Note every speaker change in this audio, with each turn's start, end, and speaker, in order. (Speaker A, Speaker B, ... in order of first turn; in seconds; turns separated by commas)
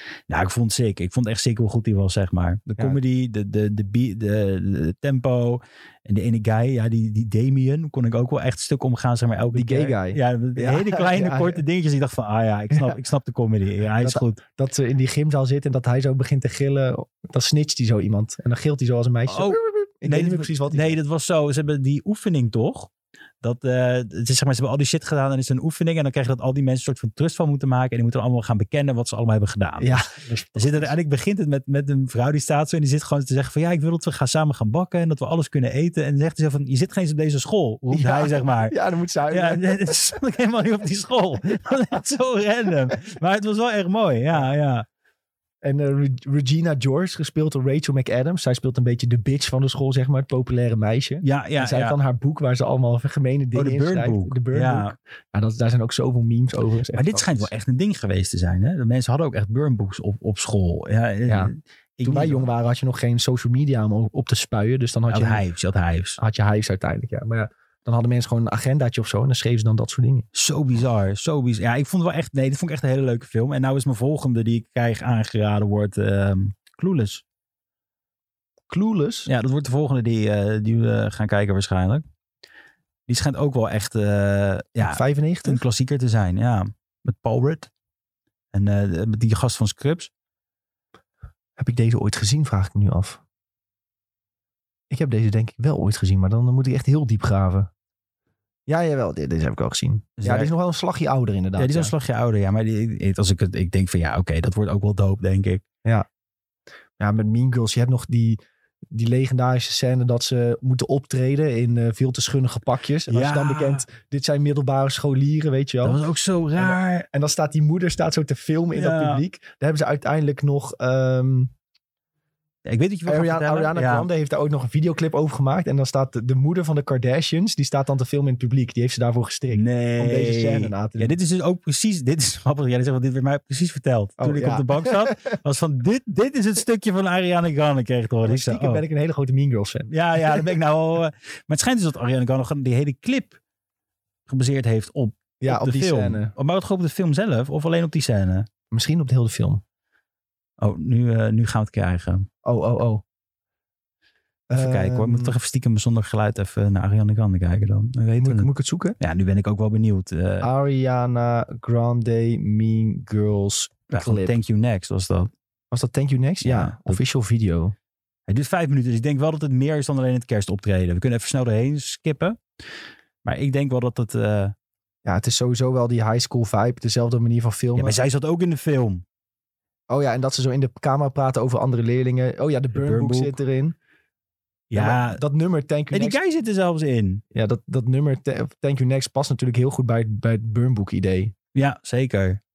Speaker A: 0.3-14.4, Speaker B: 2.7-3.0, Speaker B: 9.5-11.6, Speaker B: 14.0-21.0, Speaker A: 19.3-22.9, Speaker A: 23.4-30.0, Speaker B: 29.8-30.9, Speaker A: 30.5-38.7, Speaker B: 37.9-39.7, Speaker A: 39.3-44.9, Speaker B: 45.6-57.5, Speaker A: 51.2-51.9, Speaker A: 53.5-54.9, Speaker A: 56.9-62.5, Speaker B: 62.0-65.4, Speaker A: 65.1-66.2, Speaker B: 66.2-70.3, Speaker A: 70.3-77.2, Speaker B: 78.7-79.3, Speaker A: 79.3-82.0, Speaker A: 83.1-87.7, Speaker B: 84.8-85.6, Speaker A: 88.5-90.1, Speaker B: 91.6-93.2, Speaker B: 94.9-97.7, Speaker B: 98.7-101.9, Speaker A: 100.2-100.5, Speaker A: 101.6-105.6, Speaker B: 107.0-108.4, Speaker B: 108.9-116.0, Speaker A: 113.1-113.8, Speaker A: 115.8-117.1, Speaker B: 116.6-121.5, Speaker A: 118.7-119.2, Speaker A: 122.6-124.1, Speaker B: 123.1-131.2, Speaker A: 129.5-138.8, Speaker B: 134.2-135.3, Speaker B: 138.2-140.5, Speaker A: 139.9-143.3, Speaker A: 144.3-148.4, Speaker B: 145.4-146.3, Speaker B: 148.7-149.6, Speaker A: 150.6-152.3, Speaker B: 152.4-153.0, Speaker B: 154.5-155.3, Speaker A: 154.6-158.5, Speaker B: 158.2-159.0, Speaker A: 159.0-160.5, Speaker B: 160.4-164.3, Speaker A: 163.9-165.3, Speaker B: 165.7-167.7, Speaker A: 166.4-167.0, Speaker A: 168.3-172.4, Speaker A: 173.2-174.5, Speaker B: 175.0-177.9, Speaker A: 177.7-179.0, Speaker B: 179.9-183.8, Speaker A: 182.7-183.3, Speaker A: 184.7-185.2, Speaker B: 184.7-186.2, Speaker A: 185.9-187.2, Speaker B: 187.3-191.3, Speaker A: 191.5-192.4